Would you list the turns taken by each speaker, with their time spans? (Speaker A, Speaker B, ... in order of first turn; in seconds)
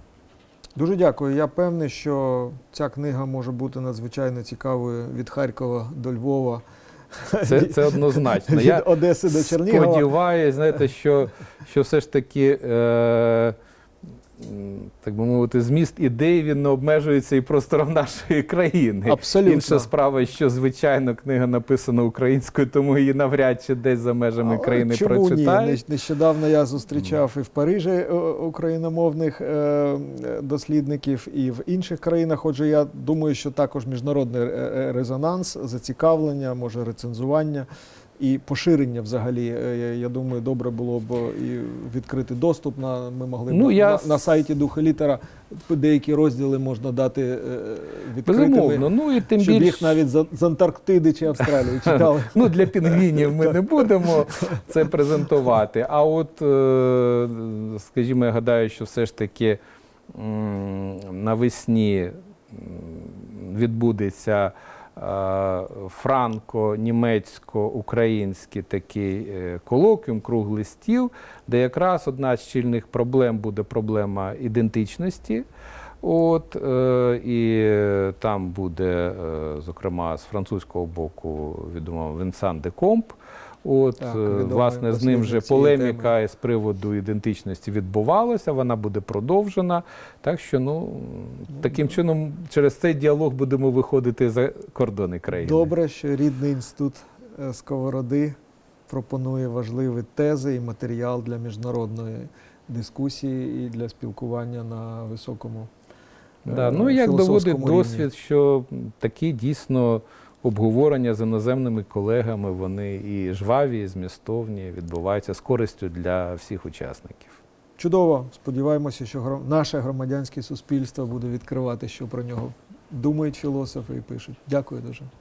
Speaker A: 0.8-10.1, 19.1-19.9, 24.4-37.7, 38.2-53.8, 84.0-86.1, 95.3-98.3, 98.9-105.7, 106.5-108.1, 117.8-125.1
Speaker B: 7.4-13.6, 14.4-25.8, 43.5-44.2, 48.2-50.0, 51.9-75.4, 76.0-95.7, 106.5-117.4